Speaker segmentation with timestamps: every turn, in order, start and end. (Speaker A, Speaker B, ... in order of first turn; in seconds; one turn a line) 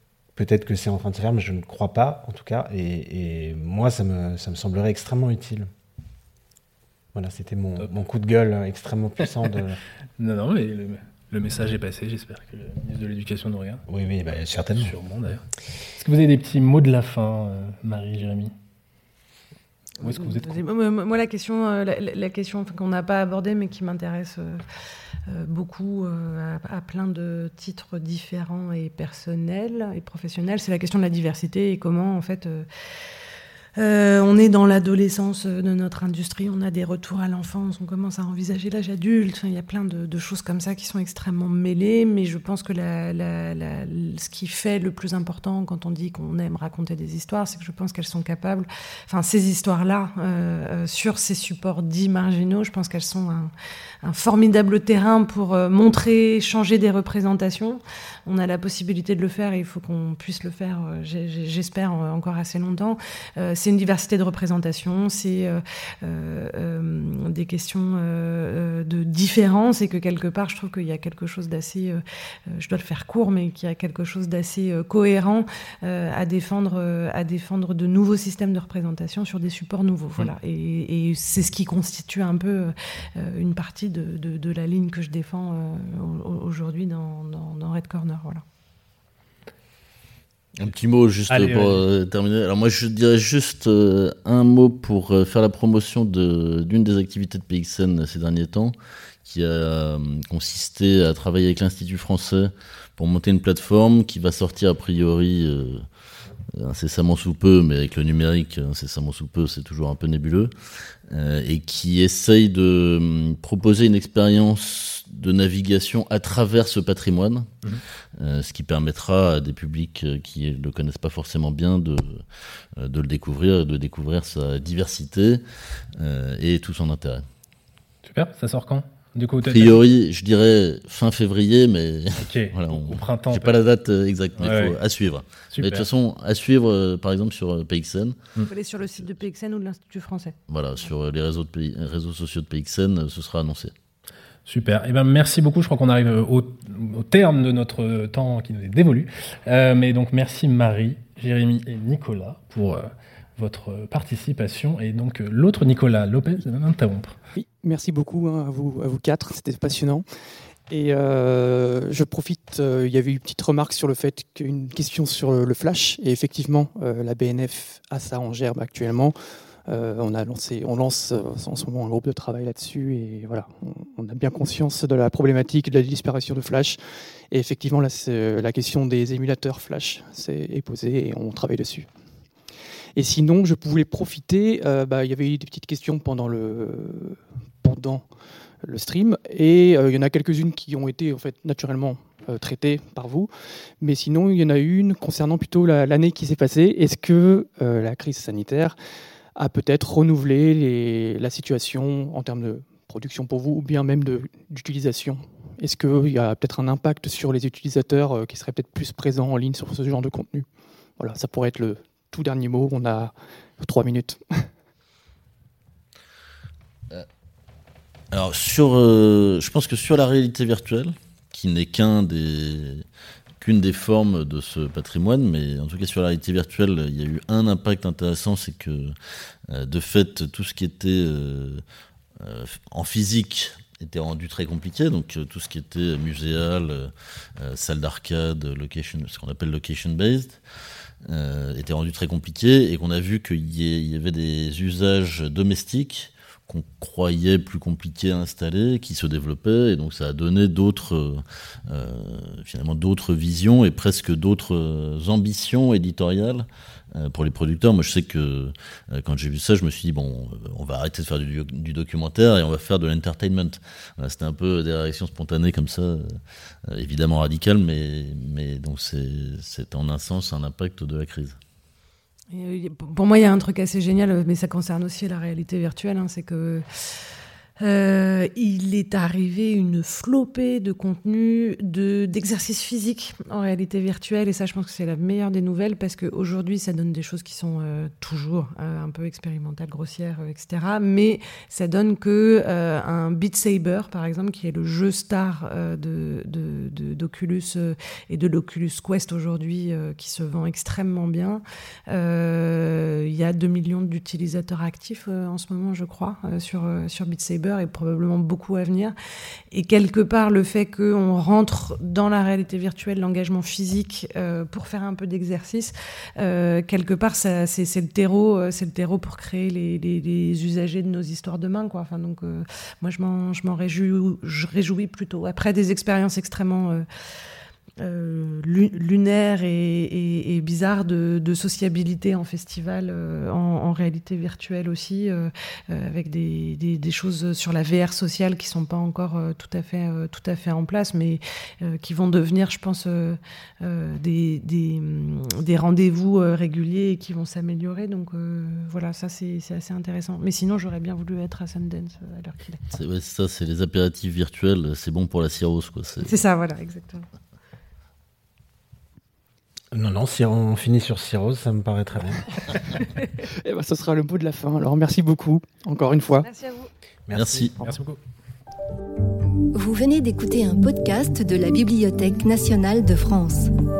Speaker A: 0.3-5.7
Speaker A: 7.1-9.8
Speaker B: 10.2-13.8
Speaker A: 13.9-14.9
Speaker B: 14.8-15.4
Speaker B: 15.9-18.5
Speaker B: 20.0-20.6
Speaker C: 20.0-24.6
Speaker C: 25.3-32.6
Speaker C: 33.8-53.5
Speaker C: 54.0-88.4
Speaker D: 90.6-105.8
Speaker B: 91.3-91.8
Speaker D: 106.5-125.4
Speaker D: 126.0-127.2
Speaker B: 128.0-129.8
Speaker D: 129.4-138.2
Speaker B: 132.2-133.6
Speaker B: 134.4-134.8
Speaker B: 135.5-135.9
Speaker C: 138.5-140.3
Speaker D: 140.5-143.7
Speaker B: 144.4-157.2
Speaker E: 157.3-160.1
Speaker E: 160.7-181.9
Speaker E: 182.9-198.8
Speaker E: 199.3-210.5
Speaker E: 211.0-214.5
Speaker D: 218.1-222.8
Speaker D: 223.4-228.9
Speaker D: 229.5-231.6
Speaker D: 232.2-240.4
Speaker D: 241.0-271.4
Speaker C: 272.3-276.6
Speaker C: 277.6-308.9
Speaker C: 309.5-326.8
Speaker C: 327.8-352.8
Speaker D: 352.7-356.1
Speaker C: 356.0-357.0
Speaker A: 359.7-362.3
Speaker E: 363.4-366.3
Speaker C: 366.1-366.7
Speaker A: 367.1-367.9
Speaker D: 367.1-367.6
Speaker F: 369.5-373.5